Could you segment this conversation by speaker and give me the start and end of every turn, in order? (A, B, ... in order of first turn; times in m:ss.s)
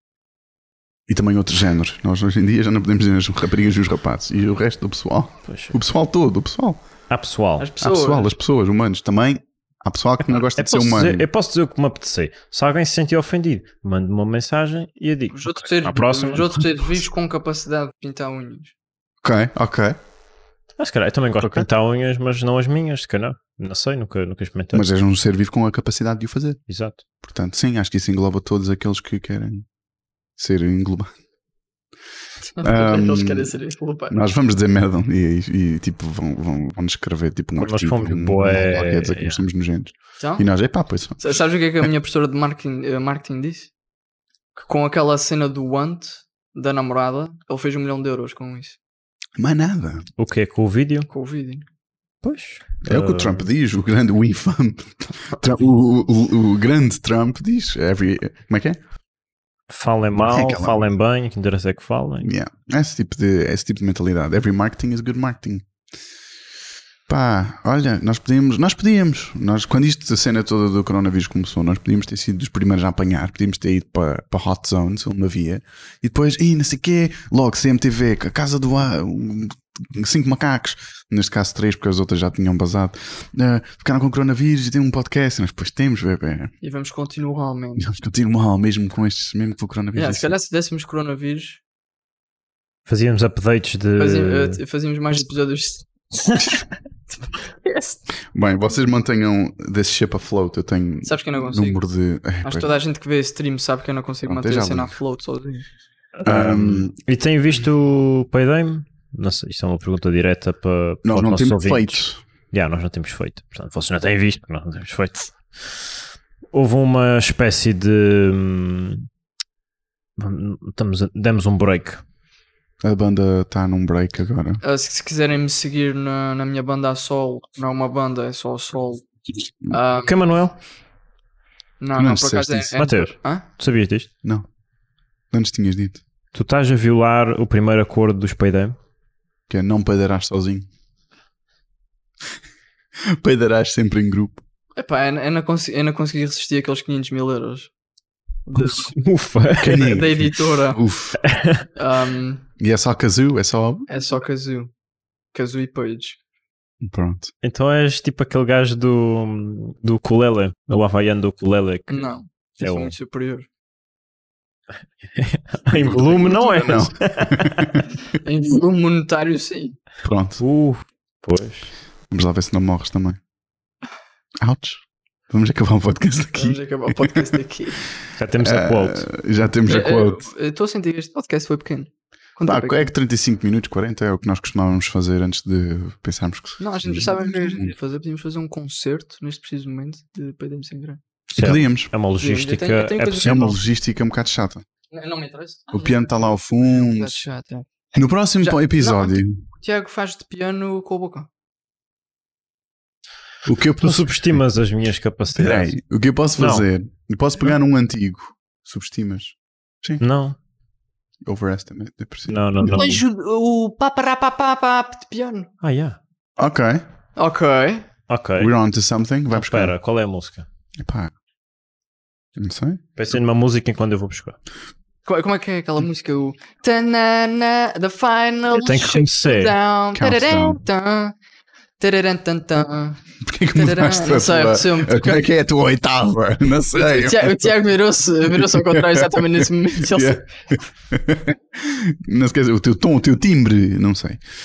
0:01.1-0:06.8 A
0:05.4-0:05.7 B
0:07.1-0:07.6 B
0:07.6-0:08.3 C
0:07.8-0:11.3 A
0:10.3-0:16.5 B
0:15.3-0:18.7 C
0:19.2-0:20.0 A
0:20.8-0:24.9 B
0:21.4-0:21.7 A
0:24.7-0:26.6 A
0:26.7-0:27.0 B
0:27.2-0:29.6 A
0:30.4-0:31.1 A
0:32.6-0:34.2 C
0:32.6-0:33.5 A
0:34.1-0:41.2 A
0:37.6-0:39.4 B
0:40.2-0:40.5 C
0:41.2-0:43.7 C
0:44.5-0:48.8 C
0:49.4-0:50.1 A
0:50.2-0:51.1 B
0:51.1-0:51.6 C
0:52.2-0:53.5 B
0:52.8-0:58.8 A
0:59.7-1:02.3 B
1:00.2-1:00.8 A
1:02.2-1:05.7 A
1:07.1-1:26.5 A
1:26.6-1:27.9 C
1:27.8-1:30.3 A
1:29.9-1:31.6 C
1:32.9-1:34.6 B
1:34.0-1:38.0 C
1:38.3-1:42.7 A
1:41.0-1:41.8 C
1:42.4-1:45.6 C
1:44.2-1:44.9 A
1:46.2-1:55.9 B
1:46.2-1:46.9 A
1:51.0-1:52.2 A
1:56.5-1:59.1 B
2:00.2-2:02.0 B
2:02.8-2:04.6 A
2:04.6-2:09.1 C
2:09.6-2:10.1 C
2:10.0-2:10.6 B
2:11.8-2:13.4 C
2:11.9-2:12.7 A
2:12.8-2:14.1 B
2:15.3-2:16.0 A
2:16.3-2:18.8 B
2:19.5-2:20.7 A
2:23.0-2:24.4 A
2:24.8-2:27.7 C
2:28.4-2:28.9 C
2:28.6-2:29.9 B
2:29.6-2:31.2 A
2:29.6-2:30.8 C
2:31.2-2:31.7 B
2:31.8-2:32.4 C
2:32.6-2:33.9 A
2:33.9-2:34.7 C
2:35.3-2:36.2 C
2:36.8-2:37.3 A
2:37.4-2:42.0 B
2:41.9-2:43.5 C
2:42.6-2:42.9 B
2:45.0-2:47.7 B
2:46.1-2:47.8 A
2:48.1-2:49.8 C
2:50.0-2:50.4 A
2:50.4-2:51.7 B
2:52.1-2:53.2 A
2:54.4-2:57.4 A
2:56.4-2:57.8 C
2:58.1-2:59.1 B
2:58.4-3:00.3 A
2:59.6-3:02.9 C
3:02.4-3:07.7 A
3:06.6-3:11.0 C
3:11.3-3:13.6 B
3:11.3-3:11.9 A
3:12.2-3:13.5 C
3:13.2-3:14.6 A
3:14.9-3:17.7 C
3:15.7-3:17.2 A
3:17.9-3:19.4 A
3:18.4-3:21.3 C
3:23.4-3:24.1 A
3:23.8-3:25.8 B
3:25.3-3:30.0 A
3:26.4-3:26.7 B
3:30.0-3:30.4 B
3:31.2-3:32.9 A
3:32.3-3:33.0 B
3:32.6-3:35.5 C
3:35.6-3:36.0 B
3:36.4-3:36.8 A
3:37.2-3:37.9 C
3:38.1-3:38.5 B
3:38.4-3:39.7 A
3:39.3-3:40.5 B
3:40.8-3:41.1 A
3:42.4-3:42.8 A
3:43.0-3:44.4 B
3:45.0-3:51.1 C
3:48.5-3:49.5 B
3:49.9-3:50.6 A
3:51.8-3:53.0 C
3:53.2-3:57.6 A
3:53.5-3:55.2 C
3:56.8-4:00.2 C
3:58.3-4:04.2 A